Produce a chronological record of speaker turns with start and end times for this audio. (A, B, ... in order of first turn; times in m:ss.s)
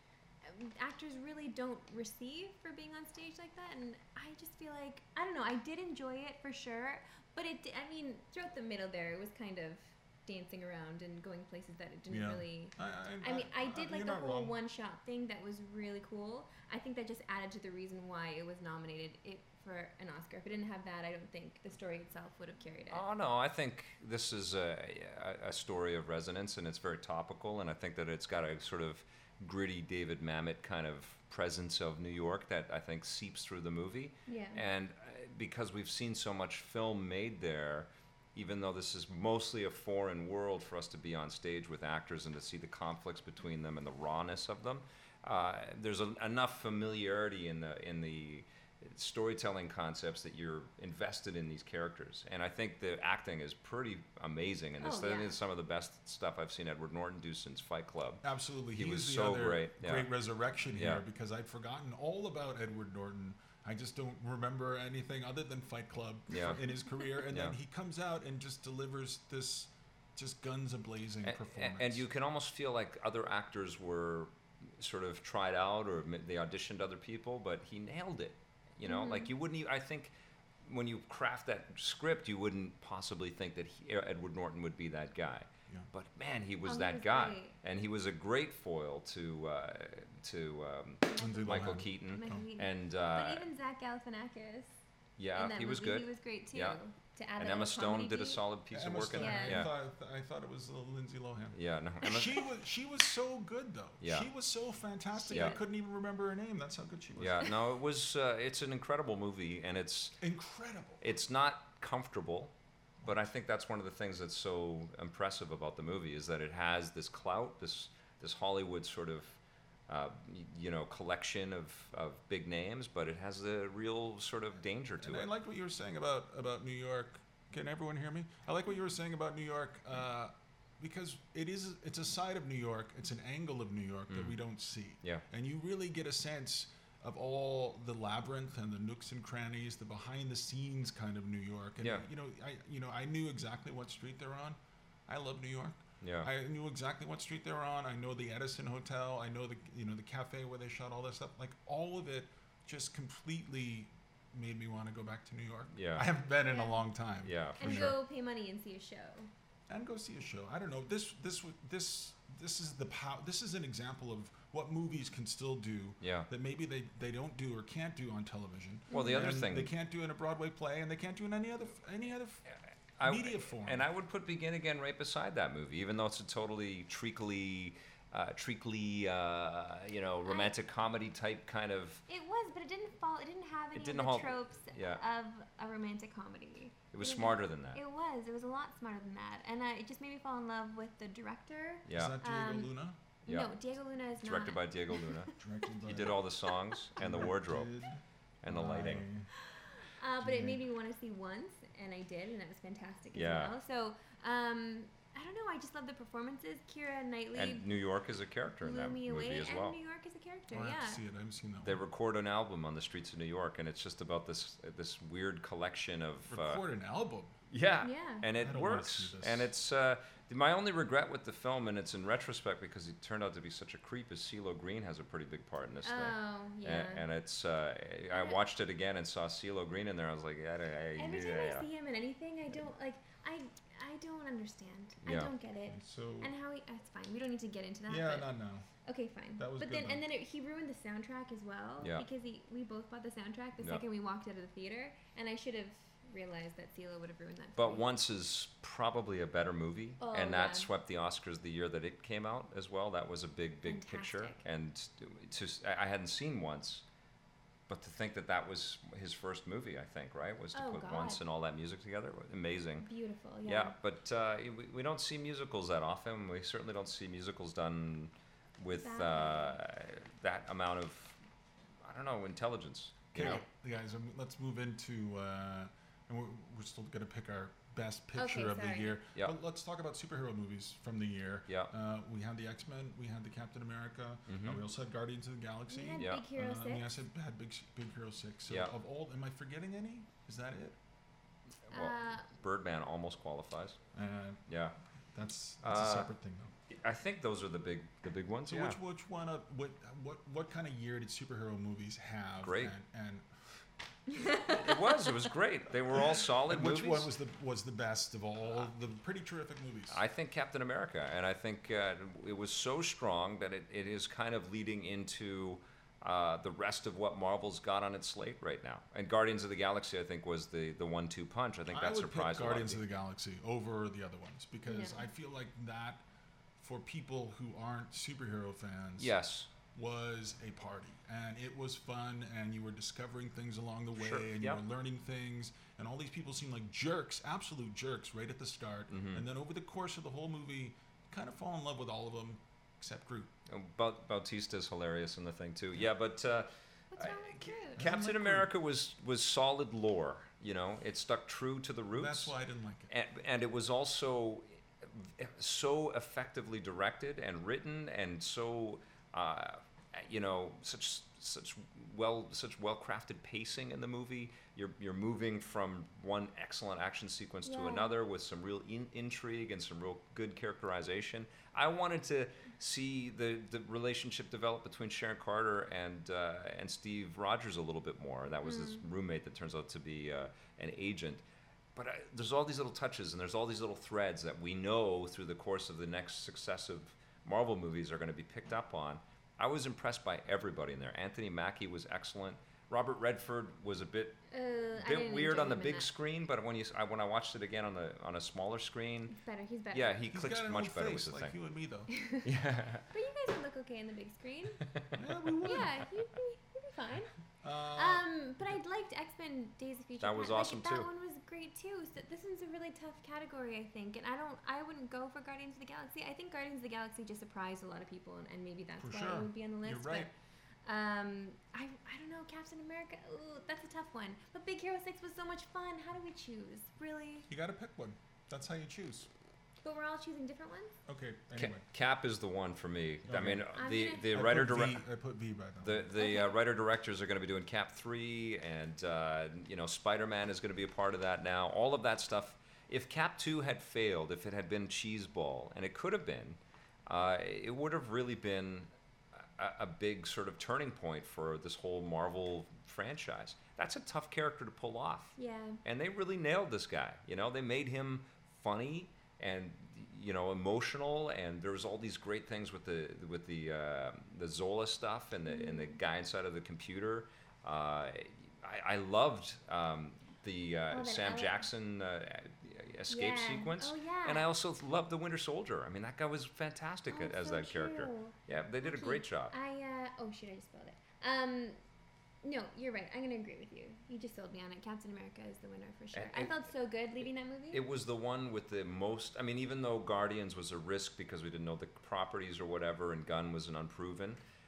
0:00.4-0:23.0 A
0:12.1-0:14.5 B
0:22.9-0:58.2 C
0:34.3-0:34.6 A
0:54.8-0:55.4 A
0:58.2-1:12.0 B
0:58.8-1:00.1 C
1:00.7-1:01.0 C
1:06.3-1:06.6 C
1:07.3-1:07.6 C
1:11.2-1:20.1 C
1:18.8-1:19.3 A
1:20.6-1:33.5 C
1:26.6-1:27.5 A
1:31.1-1:34.8 A
1:31.2-1:32.5 B
1:35.2-1:36.8 C
1:35.4-1:38.4 A
1:37.4-1:39.7 C
1:38.7-1:47.5 B
1:39.2-1:39.7 A
1:41.5-1:42.5 C
1:44.0-1:44.3 C
1:45.2-1:45.6 A
1:45.3-1:45.6 C
1:47.2-1:50.2 C
1:50.2-1:51.0 B
1:51.0-1:52.5 C
1:53.0-2:05.3 C
2:05.0-2:38.0 B
2:14.1-2:14.4 C
2:26.0-2:26.3 C
2:35.7-2:36.1 C
2:36.4-2:36.8 A
2:37.2-2:38.0 C
2:37.6-2:39.3 A
2:39.7-2:52.4 B
2:46.0-2:46.3 C
2:48.9-2:49.4 A
2:48.9-2:49.7 C
2:52.5-3:02.0 C
2:53.0-2:53.9 B
3:00.2-3:00.5 A
3:02.1-3:12.7 A
3:03.7-3:05.0 C
3:06.9-3:07.8 C
3:11.9-3:12.2 C
3:11.9-3:13.0 B
3:13.2-3:13.5 C
3:13.3-3:15.4 A
3:14.2-3:15.3 C
3:15.4-3:16.3 B
3:15.8-3:17.7 C
3:16.5-3:16.8 A
3:17.0-3:19.3 B
3:18.4-3:19.1 C
3:19.4-3:27.7 A
3:20.2-3:20.6 B
3:23.1-3:23.6 C
3:27.4-3:29.8 C
3:28.6-3:31.0 A
3:30.5-3:31.8 B
3:31.6-3:36.6 C
3:36.3-3:37.3 B
3:37.5-3:51.7 C
3:37.8-3:38.3 A
3:38.4-3:39.5 B
3:45.8-3:47.0 A
3:48.1-3:48.4 A
3:51.0-3:58.3 A
3:55.0-3:55.3 C
3:55.7-3:56.3 B
3:57.9-3:58.7 B
3:58.8-4:07.9 A
3:59.4-4:00.0 B
4:03.6-4:03.8 C
4:07.6-4:16.8 C
4:10.0-4:10.7 A
4:13.6-4:14.4 A
4:17.7-4:22.9 C
4:20.5-4:21.2 A
4:22.8-4:23.8 A
4:23.4-4:31.2 C
4:28.8-4:29.6 A
4:31.8-4:33.4 C
4:33.1-4:50.8 B
4:33.2-4:33.5 A
4:38.2-4:39.0 A
4:44.3-4:44.6 C
4:45.7-4:46.9 A
4:46.0-4:46.2 C
4:51.7-4:52.3 A
4:51.7-4:53.8 C
4:53.9-4:54.4 B
4:54.5-4:54.8 C
4:55.1-4:56.5 B
4:55.6-4:56.1 C
4:56.7-4:58.8 C
4:58.5-5:03.6 B
5:02.4-5:02.7 C
5:04.1-5:05.1 A
5:04.2-5:07.1 C
5:05.9-5:10.0 B
5:09.9-5:22.8 C
5:21.7-5:26.0 B
5:24.7-5:25.1 A
5:26.6-5:29.2 B
5:29.0-5:29.5 C
5:29.7-5:43.3 B
5:34.0-5:34.6 C
5:38.9-5:39.2 C
5:43.5-5:52.3 C
5:46.9-5:47.8 A
5:47.8-5:48.5 B
5:52.0-5:52.9 B
5:52.9-6:21.2 C
6:07.5-6:07.9 A
6:18.4-6:18.8 A
6:21.8-6:34.2 C
6:34.3-6:35.9 A
6:34.8-6:39.2 C
6:39.1-6:40.0 A
6:39.7-6:41.4 C
6:40.1-6:41.9 B
6:41.9-6:42.3 A
6:42.2-6:42.9 C
6:42.9-6:44.6 A
6:44.6-6:45.0 C
6:45.0-6:45.8 B
6:45.4-6:47.1 A
6:47.4-6:48.6 B
6:47.7-7:00.1 A
6:50.0-6:50.9 C
6:58.8-7:00.1 B
7:00.7-7:07.3 A
7:07.3-7:09.1 B
7:09.6-7:10.8 A
7:10.9-7:11.6 B
7:11.4-7:14.8 C
7:13.1-7:13.5 B
7:13.5-7:14.1 A
7:14.1-7:15.9 B
7:15.6-7:28.7 C
7:16.0-7:16.4 A
7:29.2-7:59.3 C
7:35.2-7:35.6 A
7:45.3-7:45.8 A
7:50.7-7:51.5 A
7:52.9-7:54.3 A
7:56.9-8:01.6 A
8:02.2-8:07.6 A
8:05.9-8:06.5 C
8:07.5-8:14.2 C